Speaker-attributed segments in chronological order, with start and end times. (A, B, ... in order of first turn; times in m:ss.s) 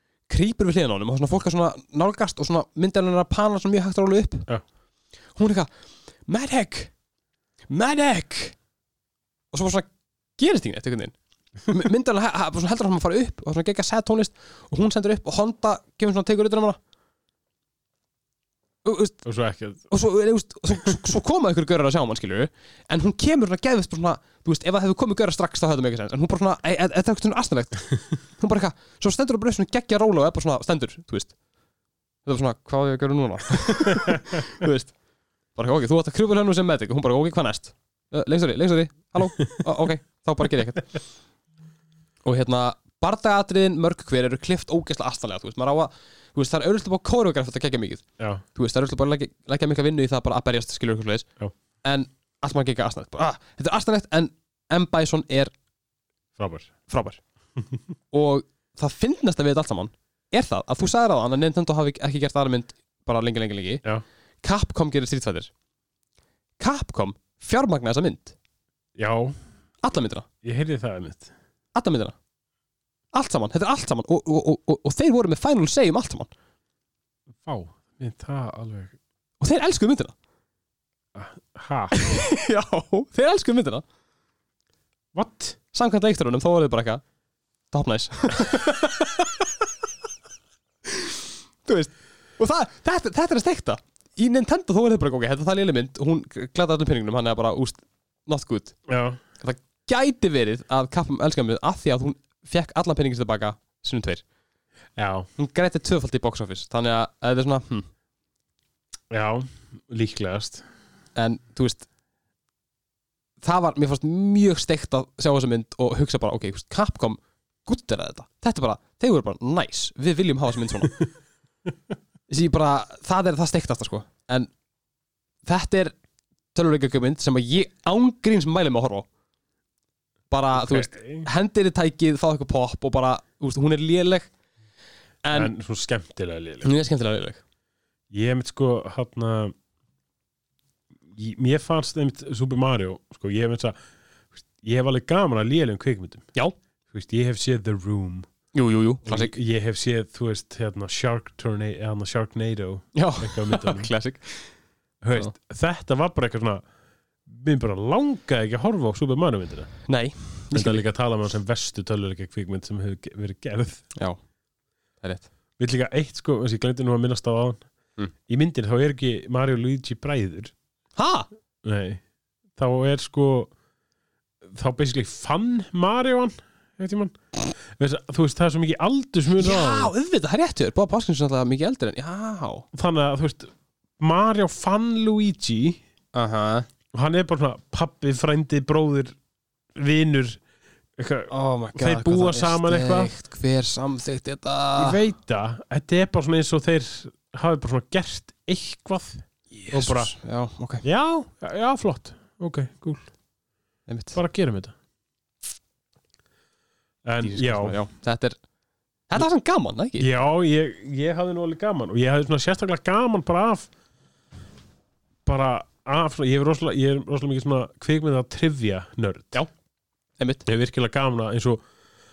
0:00.3-0:04.5 A
0:05.4-0:05.7 A
0:06.3-0:06.9 A
0:07.7-0:08.6 A
0:09.5-0:16.8 A
0:18.8-0:19.2 A
0:19.2-0:19.9 B
0:19.9-0:31.3 A
0:32.2-0:34.9 A
0:35.5-0:40.9 A
0:42.2-0:51.3 A
0:48.2-0:48.4 B
0:51.8-0:55.5 A
0:56.4-0:56.7 B
0:56.9-0:57.2 A
0:58.1-1:03.8 A
1:04.4-1:05.5 A
1:06.6-1:08.4 A
1:09.0-1:09.4 B
1:09.8-1:10.2 A
1:10.4-1:11.3 B
1:11.8-1:12.1 A
1:13.1-1:16.3 A
1:17.4-1:18.9 B
1:19.4-1:20.1 A
1:21.1-1:22.0 B
1:21.9-1:23.8 A
1:25.1-1:25.6 B
1:25.7-1:27.0 A
1:27.7-1:29.4 A
1:30.8-1:38.8 A
1:38.9-1:39.2 B
1:39.4-1:44.2 A
1:45.0-1:45.3 B
1:45.4-1:47.9 A
1:49.1-1:50.6 B
1:51.2-1:51.9 A
1:53.4-2:01.0 A
2:02.3-2:04.5 A
2:05.4-2:06.0 A
2:06.5-2:09.1 A
2:10.3-2:14.3 A
2:10.5-2:11.3 B
2:15.2-2:15.5 A
2:15.3-2:16.7 B
2:16.6-2:17.4 A
2:18.1-2:19.5 B
2:21.1-2:23.8 B
2:24.3-2:26.3 B
2:26.9-2:28.3 B
2:28.5-2:29.4 A
2:29.0-2:33.9 B
2:32.9-2:34.5 A
2:35.0-2:36.6 B
2:37.3-2:39.7 B
2:39.9-2:40.8 A
2:40.5-2:43.8 B
2:45.6-2:47.6 B
2:48.3-2:50.5 B
2:51.0-2:51.3 A
2:51.6-2:52.0 B
2:52.6-2:53.5 B
2:54.4-2:59.9 B
2:59.4-3:02.6 A
3:02.7-3:05.8 B
3:06.1-3:06.7 A
3:06.9-3:09.2 B
3:09.7-3:10.4 B
3:11.0-3:13.1 B
3:11.3-3:15.0 A
3:14.8-3:20.1 B
3:19.7-3:20.8 A
3:20.8-3:23.1 B
3:23.9-3:24.2 A
3:24.1-3:24.7 B
3:27.0-3:27.8 B
3:27.2-3:28.4 A
3:29.1-3:30.1 A
3:30.0-3:33.7 B
3:35.2-3:39.4 B
3:40.2-3:40.4 A
3:40.4-3:41.6 B